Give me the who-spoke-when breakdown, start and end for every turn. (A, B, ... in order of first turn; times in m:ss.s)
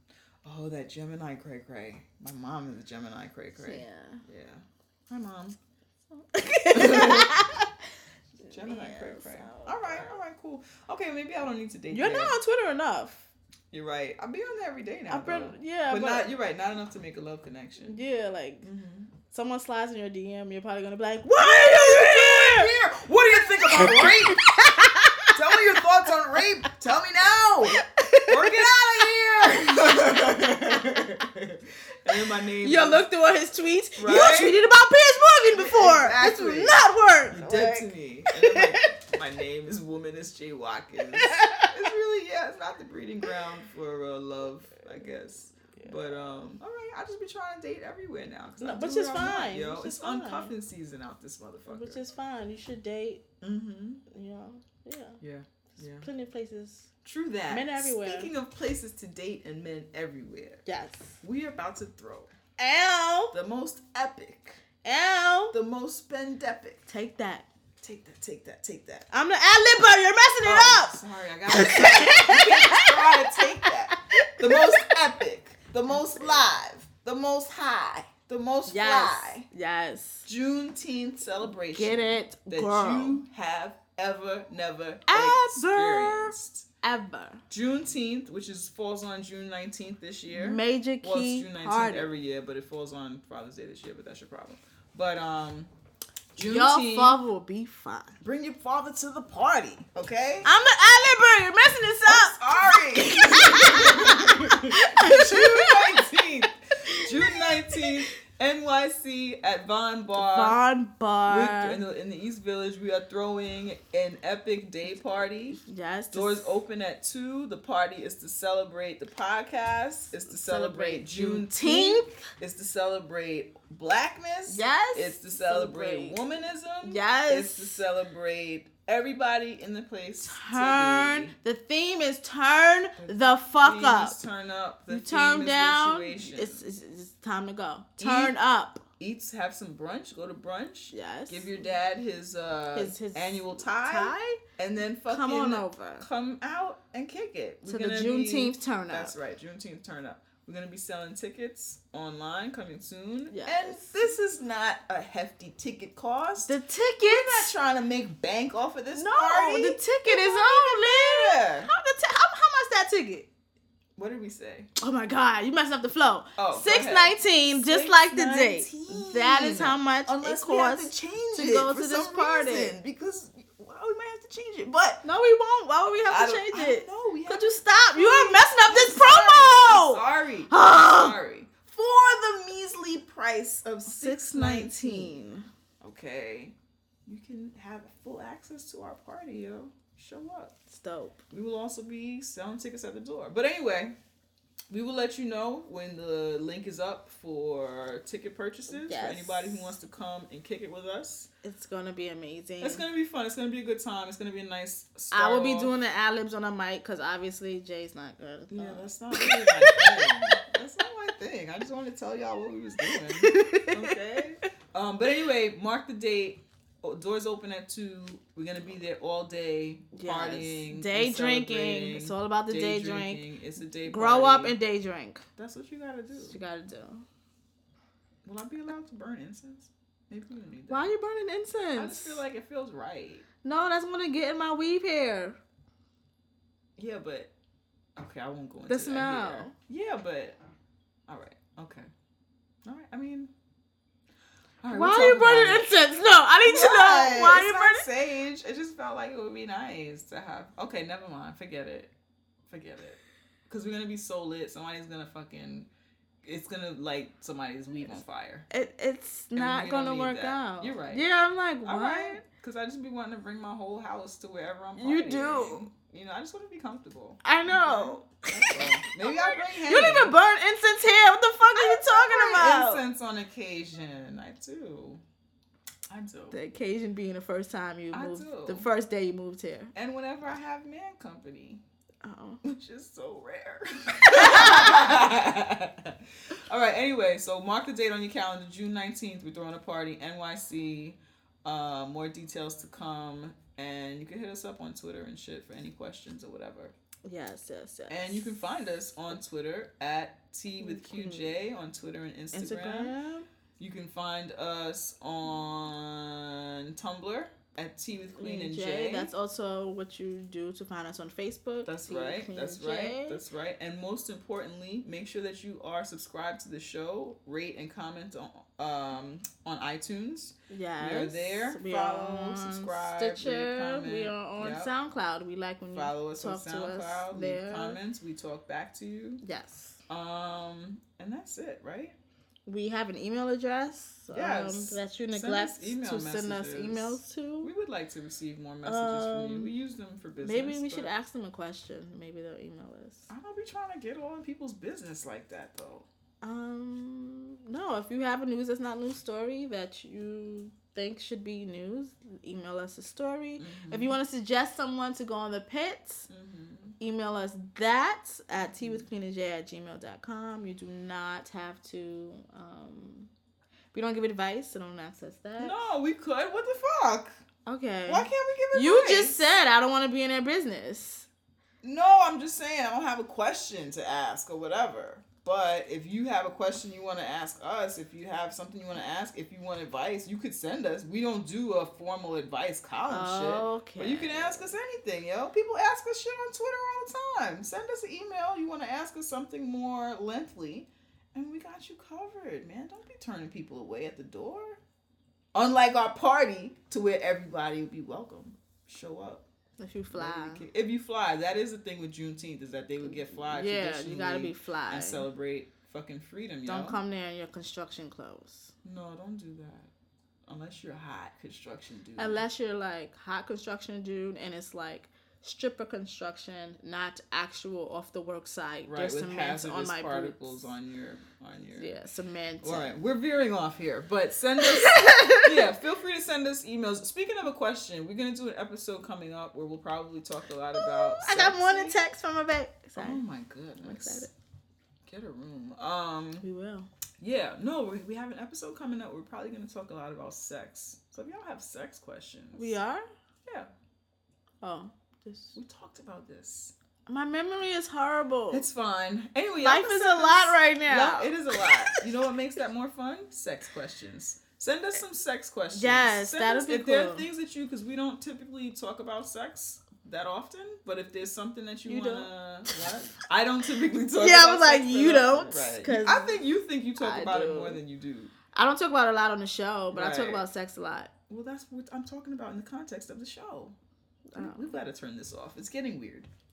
0:00.4-0:05.6 A
0:03.6-0:04.2 B
0:06.2-0:07.9 B
0:06.7-0:07.3 A
0:08.4-0:10.2 B
0:08.5-0:12.4 A
0:11.9-0:13.3 B
0:13.7-0:18.0 A
0:15.1-0:16.3 B
0:17.8-0:18.7 B
0:18.6-0:19.1 A
0:19.3-0:22.8 B
0:21.4-0:24.4 A
0:23.5-0:26.7 B
0:25.3-0:33.0 A
0:27.6-0:29.1 B
0:29.7-0:31.2 B
0:32.2-0:38.9 B
0:34.0-0:34.6 A
0:35.5-0:52.0 A
0:41.1-0:41.8 B
0:45.7-0:46.4 B
0:48.6-0:50.5 B
0:51.7-0:53.2 B
0:53.4-0:54.0 A
0:54.1-0:55.2 B
0:55.2-0:56.1 A
0:55.8-0:56.9 B
0:57.0-1:00.6 A
0:57.5-0:58.3 B
1:00.6-1:01.2 B
1:01.2-1:02.3 A
1:02.6-1:03.3 B
1:03.3-1:04.6 A
1:04.8-1:05.5 B
1:05.5-1:06.9 A
1:06.9-1:07.5 B
1:07.8-1:09.1 A
1:09.1-1:11.0 B
1:10.4-1:19.5 A
1:11.5-1:14.9 B
1:15.9-1:16.5 B
1:18.7-1:20.3 B
1:20.2-1:26.7 A
1:21.7-1:23.2 B
1:25.1-1:27.4 B
1:27.5-1:35.7 A
1:30.3-1:32.1 B
1:36.3-1:37.2 A
1:36.4-1:38.2 B
1:38.2-1:40.5 A
1:40.4-1:46.1 B
1:42.1-1:50.6 A
1:46.8-1:47.9 B
1:50.1-1:51.8 B
1:51.2-2:11.3 A
1:55.5-1:56.6 B
2:00.2-2:02.2 B
2:04.5-2:06.2 B
2:06.8-2:07.8 B
2:10.2-2:14.2 B
2:13.0-2:16.6 A
2:14.9-2:18.8 B
2:18.0-2:18.3 A
2:19.0-2:41.7 A
2:20.9-2:21.6 B
2:22.7-2:24.4 B
2:25.1-2:26.0 B
2:27.6-2:29.1 B
2:33.3-2:34.1 B
2:36.4-2:37.5 B
2:38.9-2:43.3 B
2:44.0-2:44.7 A
2:44.8-2:52.7 B
2:46.4-2:55.0 A
2:55.0-3:01.1 B
2:56.1-3:05.1 A
3:03.8-3:05.5 B
3:05.8-3:06.5 A
3:07.0-3:10.5 A
3:10.7-3:11.2 B
3:11.3-3:14.0 A
3:14.7-3:21.3 A
3:18.7-3:19.7 B
3:21.4-3:22.8 B
3:22.6-3:25.7 A
3:25.1-3:30.4 B
3:28.5-3:44.6 A
3:32.8-3:33.9 B
3:39.9-3:43.2 B
3:43.8-3:45.2 B
3:45.4-3:46.4 A
3:46.1-3:47.0 B
3:48.2-3:50.9 A
3:50.7-3:52.2 B
3:51.8-3:53.2 A
3:53.4-3:55.4 B
3:56.8-3:57.3 A
3:58.0-4:00.4 A
3:58.6-3:59.5 B
4:01.1-4:01.9 A
4:02.6-4:03.3 A
4:04.6-4:05.7 A
4:04.7-4:07.8 B
4:06.4-4:11.9 A
4:12.5-4:15.7 A
4:16.2-4:18.5 A
4:18.5-4:22.2 B
4:19.3-4:21.0 A
4:21.6-4:30.1 A
4:24.8-4:25.7 B
4:27.2-4:32.8 B
4:31.5-4:35.0 A
4:35.9-4:36.4 A
4:36.3-4:39.7 B
4:37.9-4:38.7 A
4:39.7-4:41.6 A
4:42.0-4:42.4 B
4:42.4-4:56.7 A
4:44.1-4:45.0 B
4:57.0-4:58.4 B
4:57.9-5:03.0 A
5:00.6-5:01.3 B
5:02.3-5:03.3 B
5:03.6-5:09.1 A
5:08.1-5:13.2 B
5:11.6-5:24.7 A
5:20.5-5:27.8 B
5:25.7-5:29.2 A
5:29.2-5:29.8 B
5:29.9-5:32.0 A
5:32.4-5:37.5 B
5:34.1-5:40.9 A
5:38.6-5:39.5 B
5:40.2-5:43.1 B
5:43.1-5:45.9 A
5:46.2-5:56.1 B
5:53.4-5:54.0 A
5:56.1-5:56.8 A
5:56.8-6:03.1 B
5:58.5-5:58.8 A
6:03.7-6:05.6 B
6:05.4-6:07.1 A
6:07.4-6:11.1 B
6:07.9-6:09.3 A
6:11.6-6:34.6 A
6:22.9-6:24.6 B
6:35.3-6:39.2 A
6:39.6-6:40.4 B
6:39.9-6:46.8 A
6:42.9-6:45.1 B
6:46.4-6:48.5 B
6:48.6-6:49.7 A
6:50.3-6:52.2 A
6:52.0-7:00.5 B
6:58.6-7:01.8 A
7:01.5-7:02.7 B
7:02.4-7:11.8 A
7:04.4-7:05.5 B
7:10.5-7:13.0 B
7:12.8-7:14.1 A
7:13.6-7:14.1 B
7:14.8-7:16.3 A
7:16.2-7:16.7 B
7:17.0-7:22.6 A
7:22.3-7:22.9 B
7:23.2-7:23.5 A
7:24.4-7:25.4 B
7:25.3-7:26.5 A
7:26.9-7:28.5 B
7:28.3-7:48.1 A
7:29.4-7:31.8 B
7:35.5-7:37.0 B
7:41.7-7:42.7 B
7:43.9-7:46.2 B
7:46.8-7:47.6 B
7:48.3-7:50.9 B
7:49.7-7:50.2 A
7:51.1-7:53.5 A
7:54.1-7:54.6 B
7:54.2-7:56.1 A